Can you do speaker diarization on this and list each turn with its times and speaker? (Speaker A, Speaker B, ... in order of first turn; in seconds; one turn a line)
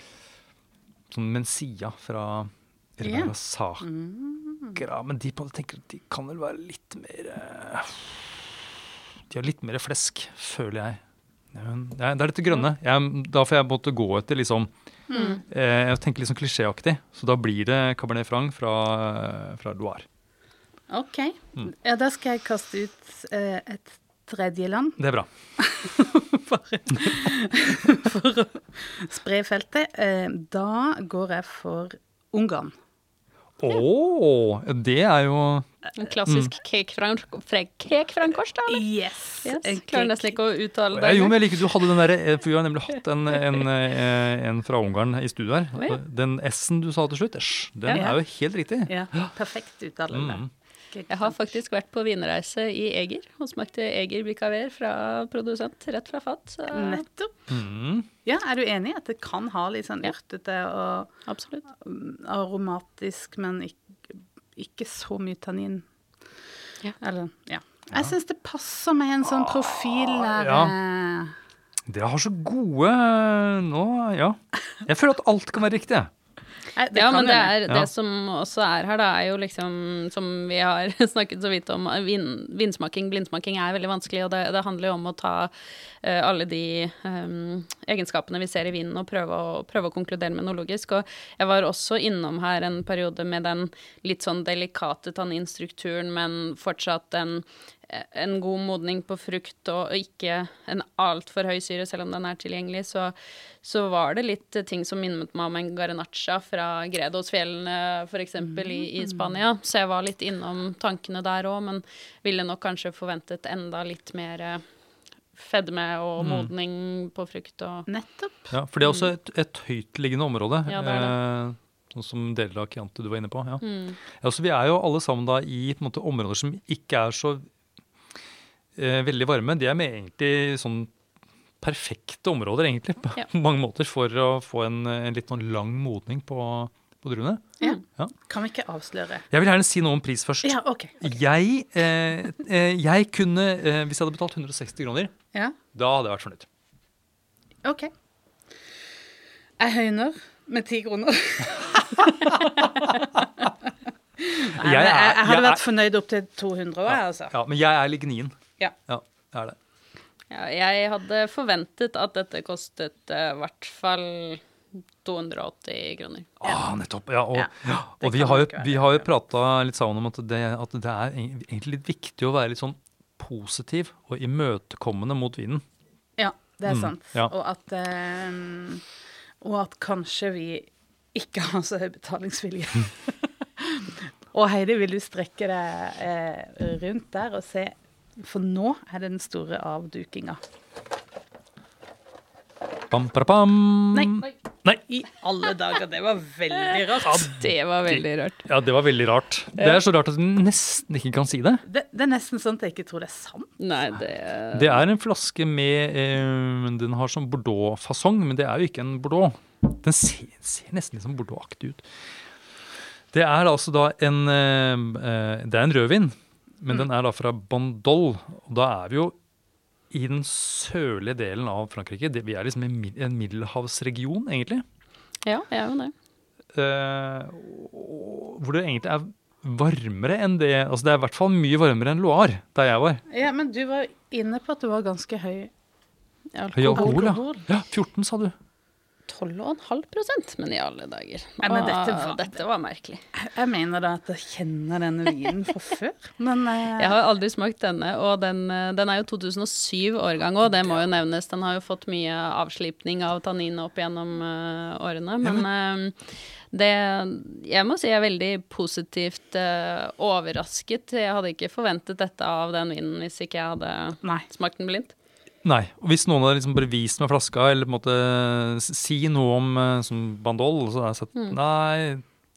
Speaker A: 1.1-3.9
Speaker B: 3.0-4.8
Speaker A: 4.8-11.0
Speaker A: 11.5-14.7
Speaker B: 15.1-15.4
Speaker C: 15.1-15.4
Speaker A: 15.5-20.1
Speaker B: 20.9-25.0
Speaker A: 25.0-25.3
Speaker B: 25.6-32.8
Speaker A: 33.6-35.7
Speaker C: 36.0-38.9
Speaker A: 36.3-36.5
Speaker B: 38.7-40.4
Speaker C: 39.4-41.5
Speaker A: 40.9-49.3
Speaker B: 47.9-48.2
Speaker B: 48.9-51.5
Speaker A: 50.1-50.5
Speaker C: 51.1-57.0
Speaker B: 56.7-57.5
Speaker A: 57.5-58.1
Speaker B: 58.2-61.1
Speaker C: 61.3-61.6
Speaker B: 61.7-65.9
Speaker B: 67.0-71.3
Speaker A: 70.0-70.7
Speaker A: 71.9-76.1
Speaker B: 76.7-77.6
Speaker C: 76.9-85.5
Speaker C: 86.0-114.7
Speaker B: 108.5-109.2
Speaker C: 115.3-117.9
Speaker A: 116.2-116.5
Speaker B: 117.9-118.5
Speaker A: 118.5-123.6
Speaker C: 118.8-119.1
Speaker C: 120.7-121.1
Speaker C: 123.6-124.0
Speaker A: 124.1-127.5
Speaker A: 128.8-130.9
Speaker A: 131.6-138.1
Speaker B: 137.6-139.3
Speaker A: 139.3-145.1
Speaker B: 140.4-141.1
Speaker A: 145.7-146.5
Speaker B: 147.6-147.9
Speaker B: 149.6-153.4
Speaker A: 152.2-153.1
Speaker B: 154.2-157.3
Speaker A: 154.6-155.6
Speaker A: 156.9-159.6
Speaker C: 160.3-164.4
Speaker C: 165.0-166.3
Speaker A: 166.4-175.6
Speaker B: 167.3-169.1
Speaker B: 176.2-178.8
Speaker A: 176.7-177.3
Speaker B: 179.4-190.4
Speaker A: 192.9-194.8
Speaker B: 193.9-194.3
Speaker B: 194.9-197.3
Speaker A: 197.1-201.6
Speaker C: 197.2-198.4
Speaker B: 201.7-203.6
Speaker C: 203.6-204.8
Speaker A: 204.5-212.1
Speaker A: 213.1-219.2
Speaker A: 219.9-224.7
Speaker C: 225.2-225.9
Speaker A: 226.5-233.0
Speaker B: 233.1-235.5
Speaker C: 236.3-237.1
Speaker A: 236.5-238.3
Speaker B: 236.7-237.4
Speaker C: 239.1-243.1
Speaker B: 241.4-242.3
Speaker B: 243.2-246.9
Speaker C: 246.8-264.9
Speaker A: 265.4-272.0